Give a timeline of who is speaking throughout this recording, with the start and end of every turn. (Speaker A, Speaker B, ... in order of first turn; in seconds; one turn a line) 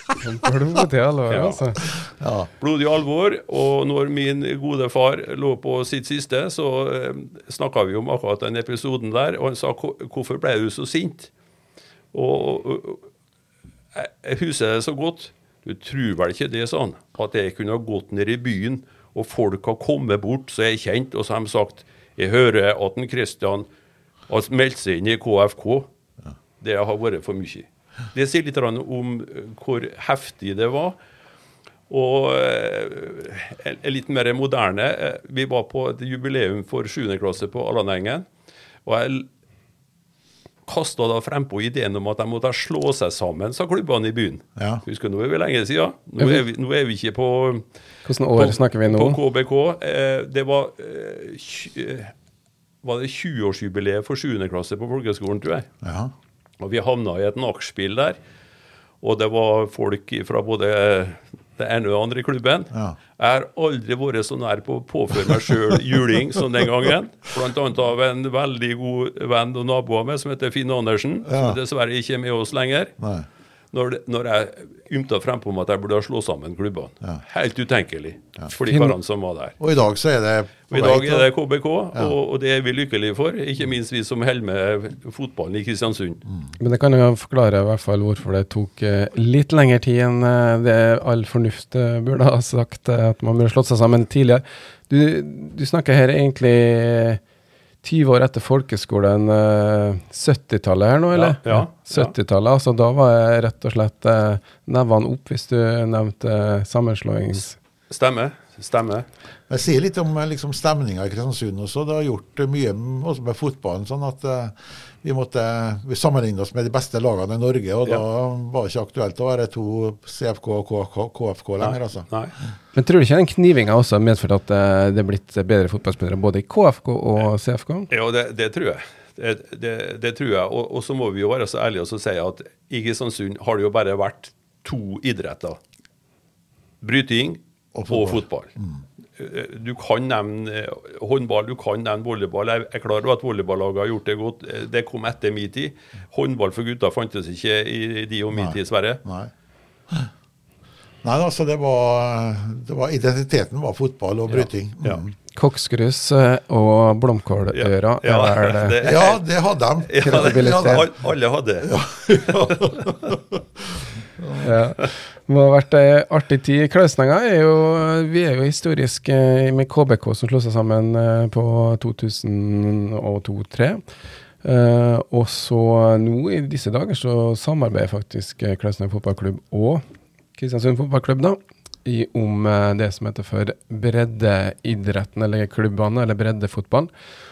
Speaker A: 0.2-1.8
Speaker B: 1.3-1.6
Speaker C: 2.1-2.5
Speaker B: 2.6-11.3
Speaker B: 12.1-13.0
Speaker B: 13.9-23.7
Speaker B: 24.3-25.9
Speaker B: 26.6-31.0
Speaker B: 31.9-38.3
Speaker B: 38.9-39.3
Speaker B: 40.7-47.6
Speaker C: 44.6-44.8
Speaker A: 48.0-49.2
Speaker B: 48.4-52.1
Speaker B: 52.8-55.7
Speaker C: 55.8-56.1
Speaker B: 56.6-58.2
Speaker B: 59.0-72.9
Speaker C: 62.7-63.0
Speaker C: 71.3-71.6
Speaker C: 73.0-73.3
Speaker B: 73.7-79.6
Speaker A: 78.7-79.0
Speaker C: 79.6-81.3
Speaker B: 80.7-86.2
Speaker A: 86.6-97.2
Speaker A: 97.8-107.6
Speaker B: 101.1-102.2
Speaker B: 107.9-109.1
Speaker C: 109.5-122.1
Speaker B: 121.6-122.3
Speaker A: 122.8-127.9
Speaker B: 127.9-135.6
Speaker B: 136.8-138.5
Speaker C: 137.8-138.8
Speaker B: 139.2-149.0
Speaker C: 148.3-149.3
Speaker C: 151.0-155.2
Speaker A: 155.3-158.8
Speaker B: 157.5-159.2
Speaker C: 158.8-160.9
Speaker B: 159.8-162.8
Speaker A: 160.0-160.9
Speaker C: 161.6-164.5
Speaker A: 164.4-173.8
Speaker A: 174.4-179.8
Speaker A: 180.4-186.9